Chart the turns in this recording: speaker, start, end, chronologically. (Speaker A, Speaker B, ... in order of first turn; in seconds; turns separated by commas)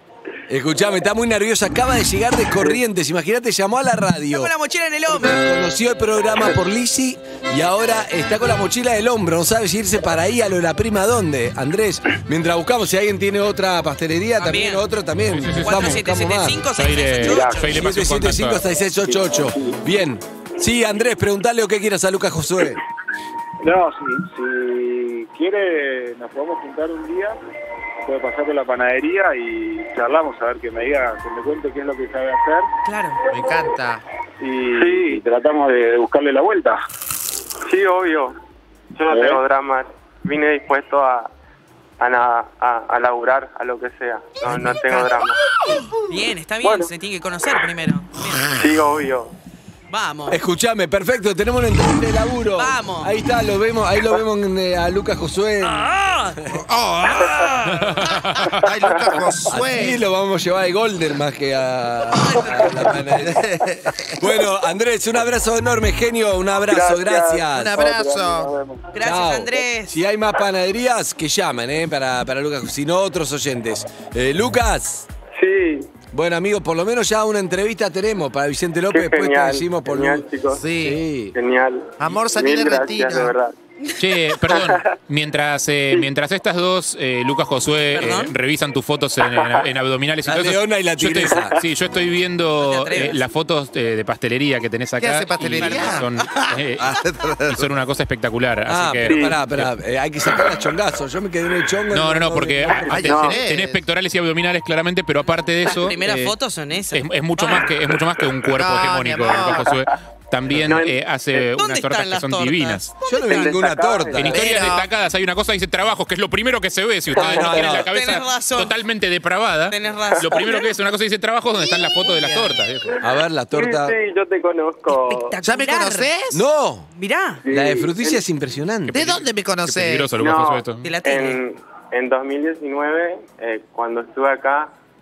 Speaker A: 0.5-4.5, Speaker B: 4.3-5.4, Speaker A: 5.1-16.6, Speaker B: 14.4-14.8, Speaker C: 15.3-16.0, Speaker B: 15.6-17.7, Speaker C: 16.8-18.6, Speaker A: 17.5-22.8, Speaker D: 19.1-19.8, Speaker D: 23.6-27.4, Speaker D: 28.1-32.7, Speaker B: 32.9-33.2, Speaker E: 33.3-34.0, Speaker D: 34.4-36.8, Speaker F: 34.8-35.2, Speaker F: 37.7-38.4, Speaker F: 38.9-41.3, Speaker D: 39.1-39.4, Speaker F: 42.0-45.4, Speaker E: 44.5-45.1, Speaker B: 46.1-48.3, Speaker E: 48.3-48.6, Speaker F: 48.5-49.3, Speaker B: 49.9-50.4, Speaker A: 50.3-56.6, Speaker B: 52.6-53.1, Speaker E: 56.5-60.0, Speaker A: 57.1-58.1, Speaker C: 57.8-58.7, Speaker A: 59.5-63.4, Speaker B: 62.2-62.8, Speaker E: 63.2-64.2, Speaker A: 64.2-67.8, Speaker F: 66.7-67.5, Speaker E: 67.5-68.5, Speaker D: 67.8-68.9, Speaker B: 68.9-69.9, Speaker A: 69.0-75.1, Speaker F: 75.3-75.9, Speaker A: 76.1-80.3, Speaker F: 78.9-80.6, Speaker E: 80.6-81.0, Speaker A: 80.8-81.3, Speaker F: 81.3-83.5, Speaker E: 82.0-83.3, Speaker C: 84.0-96.9, Speaker F: 84.5-84.9, Speaker B: 87.9-88.3, Speaker A: 90.2-91.6, Speaker F: 91.3-91.6, Speaker B: 92.6-93.2, Speaker E: 95.0-96.1, Speaker B: 95.6-96.5, Speaker E: 96.8-97.6, Speaker C: 97.5-99.7, Speaker A: 98.7-103.1, Speaker F: 99.1-99.4, Speaker C: 101.9-106.3, Speaker E: 102.9-103.8, Speaker F: 103.1-103.4, Speaker B: 105.6-107.6, Speaker C: 106.9-112.9, Speaker E: 108.5-109.8, Speaker F: 110.6-111.0, Speaker B: 111.4-113.7, Speaker A: 113.1-114.6, Speaker F: 113.2-114.6, Speaker C: 114.1-123.0, Speaker B: 114.3-114.7, Speaker E: 114.4-114.8, Speaker A: 117.1-117.9, Speaker B: 117.4-118.7, Speaker B: 119.7-120.7, Speaker F: 120.1-120.5, Speaker B: 122.2-122.5, Speaker A: 123.0-123.9, Speaker F: 123.5-125.4, Speaker B: 124.9-126.1, Speaker E: 125.4-126.4, Speaker A: 126.3-126.9, Speaker B: 127.0-127.5, Speaker F: 127.5-128.2, Speaker A: 127.5-129.2, Speaker C: 128.9-130.9, Speaker E: 128.9-130.1, Speaker F: 130.2-134.7, Speaker B: 130.8-131.4